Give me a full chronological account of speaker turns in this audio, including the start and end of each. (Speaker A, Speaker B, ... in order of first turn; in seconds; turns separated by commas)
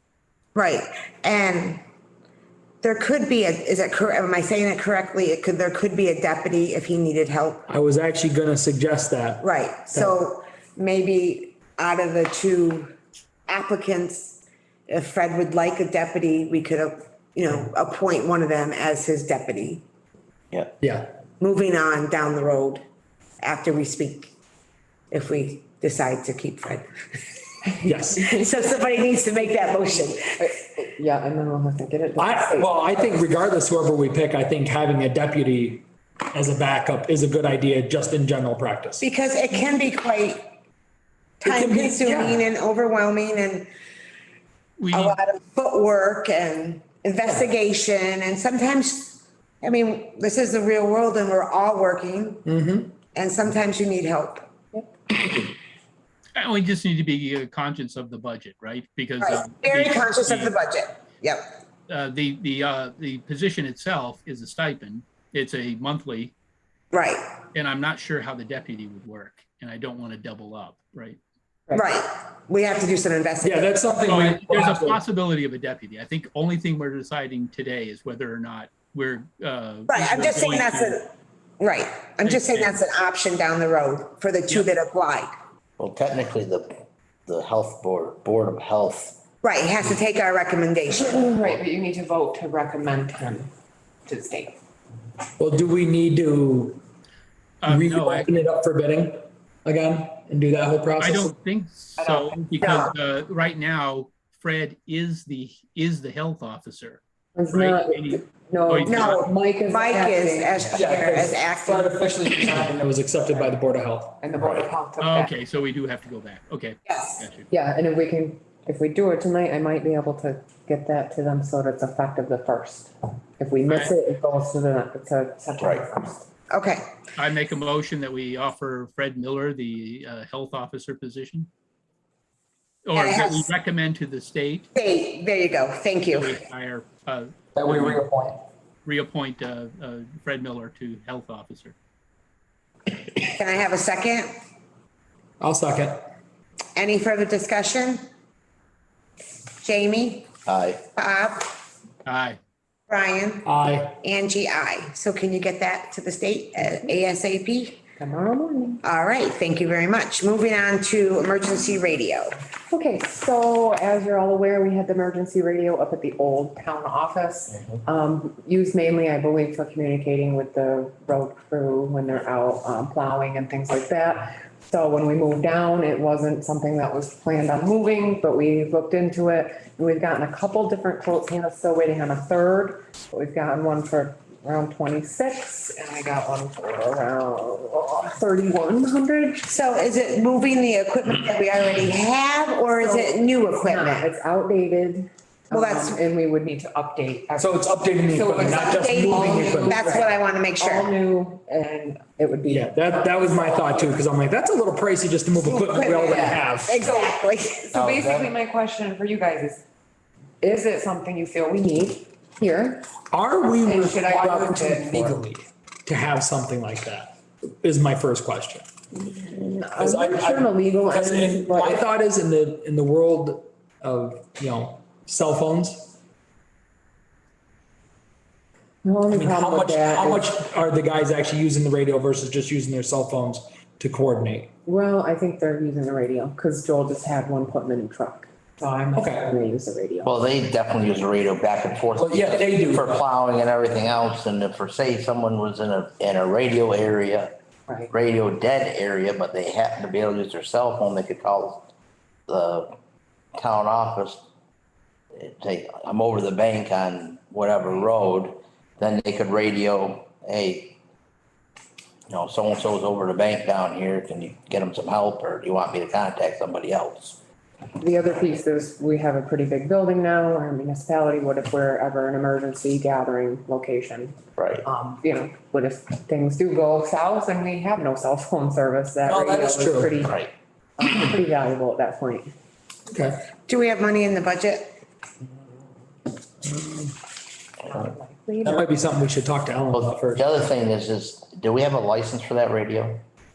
Speaker A: 0.5-1.8, Speaker A: 2.8-7.7, Speaker B: 7.7-9.4, Speaker A: 9.4-12.9, Speaker A: 13.5-19.8, Speaker B: 20.8-21.1, Speaker A: 21.4-22.8, Speaker A: 23.4-24.3, Speaker A: 25.1-27.2, Speaker B: 27.9-28.3, Speaker C: 27.9-28.2, Speaker A: 28.3-30.4, Speaker C: 30.4-32.7, Speaker B: 32.2-39.0, Speaker A: 39.0-40.4, Speaker B: 41.4-42.4, Speaker A: 41.4-43.7, Speaker D: 44.8-45.2, Speaker A: 44.9-52.5, Speaker B: 52.4-53.0, Speaker A: 53.1-54.4, Speaker D: 56.4-60.5, Speaker A: 59.2-61.4, Speaker D: 61.9-66.3, Speaker A: 66.9-67.2, Speaker D: 67.5-71.2, Speaker A: 71.7-73.7, Speaker B: 73.4-75.0, Speaker D: 74.1-81.0, Speaker A: 79.9-81.1, Speaker A: 81.6-85.3, Speaker D: 82.2-82.8, Speaker E: 85.8-89.2, Speaker A: 89.4-91.3, Speaker C: 91.0-93.5, Speaker C: 94.0-94.6, Speaker B: 95.4-96.8, Speaker D: 97.6-98.3, Speaker B: 97.7-101.3, Speaker D: 101.0-109.3, Speaker C: 102.0-102.9, Speaker C: 107.3-110.7, Speaker A: 108.8-111.9, Speaker B: 110.7-114.2, Speaker C: 113.3-113.5, Speaker C: 114.2-115.3, Speaker E: 114.3-114.7, Speaker D: 115.0-117.5, Speaker A: 116.9-117.2, Speaker C: 117.5-126.2, Speaker D: 123.7-123.9, Speaker E: 125.6-125.8, Speaker A: 126.5-126.9, Speaker D: 127.2-131.5, Speaker D: 132.8-134.7, Speaker A: 132.9-133.5, Speaker A: 134.7-136.4, Speaker D: 136.1-138.1, Speaker B: 137.6-138.4, Speaker D: 138.8-141.8, Speaker A: 143.2-144.3, Speaker B: 145.4-146.1, Speaker A: 146.8-148.0, Speaker A: 149.6-150.3, Speaker E: 150.4-150.8, Speaker A: 150.9-151.5, Speaker D: 152.1-152.4, Speaker A: 152.9-153.5, Speaker B: 153.4-153.9, Speaker A: 154.0-157.8, Speaker C: 158.0-158.8, Speaker A: 158.8-162.3, Speaker C: 162.7-189.4, Speaker A: 189.4-194.1, Speaker C: 192.8-202.8, Speaker A: 195.5-196.0, Speaker B: 197.3-199.8, Speaker A: 198.5-200.9, Speaker B: 202.5-206.8, Speaker A: 205.4-207.7, Speaker C: 206.0-207.1, Speaker C: 207.6-209.6, Speaker E: 207.7-208.3, Speaker C: 210.4-212.8, Speaker B: 213.1-218.7, Speaker C: 213.6-215.2, Speaker C: 218.9-221.8, Speaker B: 219.8-225.9, Speaker C: 228.8-230.3, Speaker B: 229.1-234.5, Speaker C: 234.6-240.1, Speaker B: 238.9-239.3, Speaker E: 240.0-247.3, Speaker B: 241.9-243.0, Speaker E: 247.9-251.7, Speaker E: 252.3-252.7, Speaker E: 253.3-254.2, Speaker E: 255.1-260.8, Speaker E: 262.1-267.2, Speaker C: 267.8-280.2, Speaker E: 274.4-274.6, Speaker B: 279.1-280.0, Speaker E: 280.0-280.3, Speaker C: 280.8-282.3, Speaker B: 282.9-283.2, Speaker A: 283.4-284.7, Speaker B: 286.4-286.9, Speaker C: 287.6-288.7, Speaker B: 288.4-290.3, Speaker E: 289.7-293.0